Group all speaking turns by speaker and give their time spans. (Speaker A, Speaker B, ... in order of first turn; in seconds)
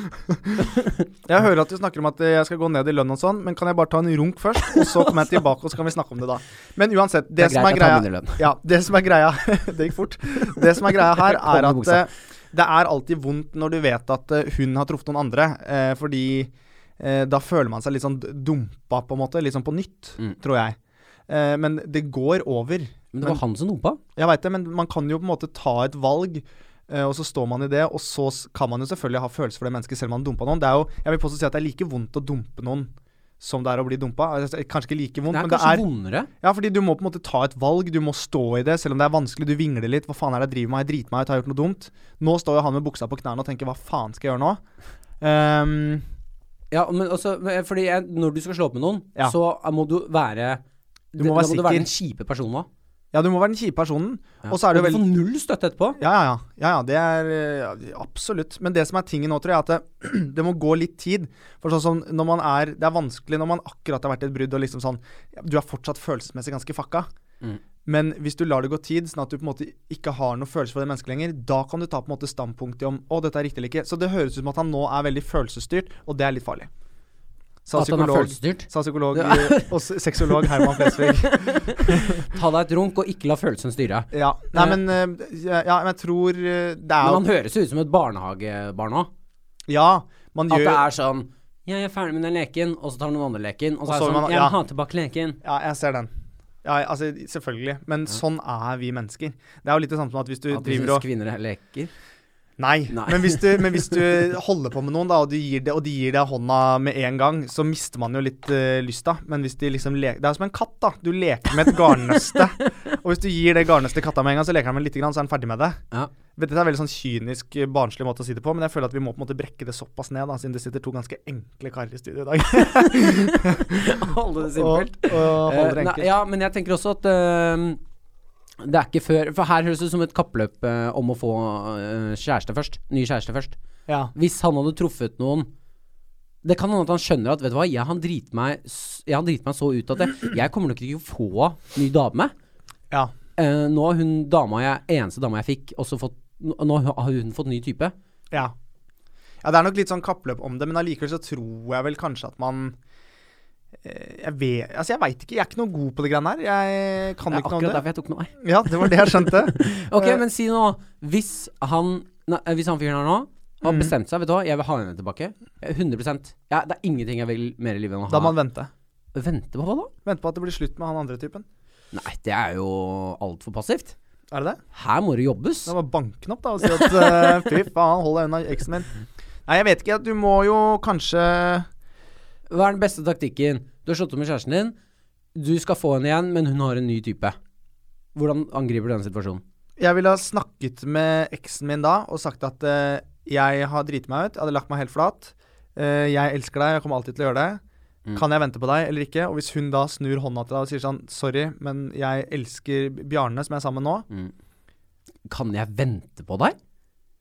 Speaker A: 0.5-1.1, 4.7-5.1, 7.4-8.4, 10.8-12.1, 23.1-24.0, 35.3-36.3, 46.7-50.6, 51.1-52.7, 54.4-56.0, 77.7-84.8, 87.0-89.1, 90.5-95.4, 100.5-101.9, 102.9-104.0, 123.0-127.8, 128.6-133.6, 134.1-135.5, 136.4-142.3, 143.4-147.9, 157.3-168.3, 169.1-169.9, 171.9-173.9, 174.7-175.7, 176.7-177.5, 182.5-184.7, 185.3-187.3, 188.1-189.4, 205.3-206.6
Speaker B: 1.2-20.8, 21.3-23.4, 24.1-35.8, 36.4-44.6, 45.2-46.0, 51.2-51.9, 53.1-55.0, 56.0-67.1, 67.8-76.7, 77.7-82.3, 84.1-87.2, 89.7-90.8, 93.8-94.5, 95.4-96.1, 96.6-101.0, 102.6-115.8, 116.4-126.1, 133.9-134.1, 149.4-152.7, 153.8-157.8, 158.4-160.2, 163.6-163.9, 168.1-168.7, 170.0-171.4, 174.3-174.6, 175.7-178.9, 179.4-181.7, 189.8-197.6, 198.2-204.1